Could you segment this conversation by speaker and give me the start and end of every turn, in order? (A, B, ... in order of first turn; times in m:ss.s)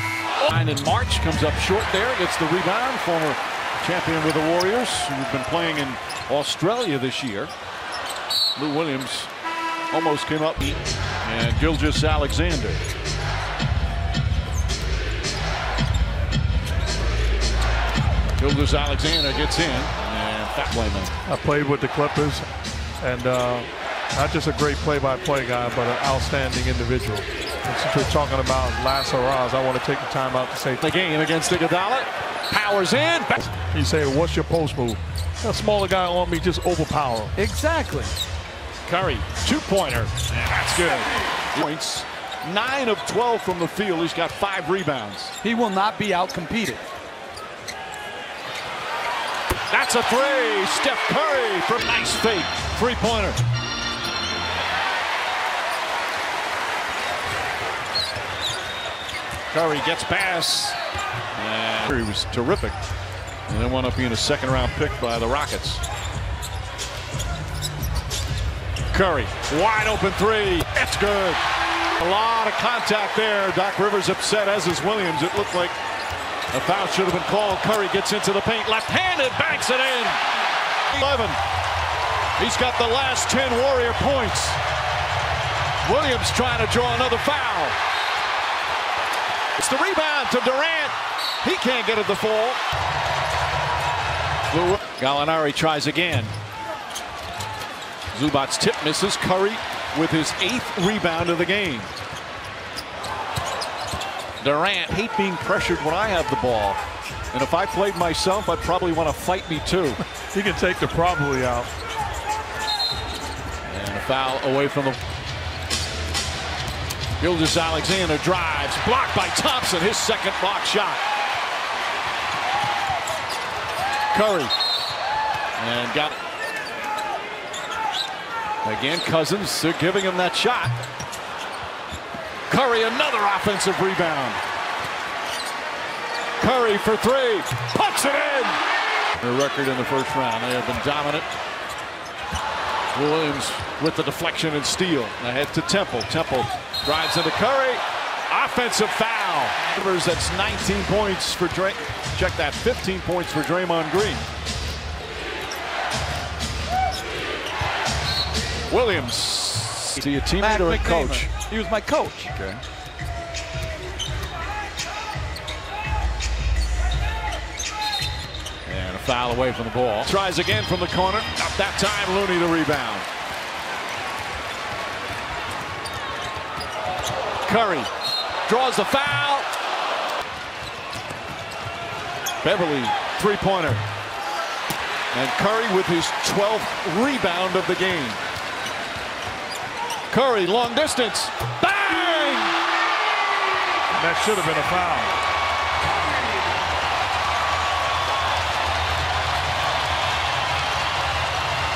0:00.4-0:07.5 A
0:08.6-0:09.3 A
0:09.9-0:12.8 A
0:18.4-0:21.1 A
0:21.2-0:22.4 B
0:23.0-0:30.8 B
0:30.8-0:33.5 A
0:33.7-0:37.3 B
0:37.4-0:38.2 C
0:38.8-0:45.3 A
0:45.4-0:46.8 C
0:49.7-0:53.4 A
0:59.5-1:00.8 A
1:01.3-1:02.8 A
1:03.5-1:05.8 A
1:08.9-1:11.4 A
1:12.0-1:15.8 A
1:16.5-1:20.2 A
1:20.9-1:21.4 A
1:22.4-1:24.6 A
1:25.8-1:27.8 A
1:29.6-1:32.6 A
1:34.5-1:36.3 A
1:38.1-1:41.9 A
1:44.4-1:46.8 A
1:47.3-1:50.0 A
1:50.3-1:51.7 B
1:53.6-1:55.0 A
1:57.2-2:01.0 A
2:04.1-2:04.5 A
2:05.6-2:06.2 A
2:08.6-2:10.7 A
2:12.5-2:14.4 A
2:16.4-2:18.6 A
2:19.2-2:21.3 A
2:22.9-2:34.3 A
2:38.7-2:41.3 A
2:40.3-2:42.3 C
2:42.3-2:42.6 A
2:48.6-2:53.1 A
2:57.4-2:57.9 A
2:58.4-2:59.5 A
3:02.4-3:03.8 A
3:05.1-3:08.2 A
3:10.1-3:12.5 A
3:13.9-3:15.2 B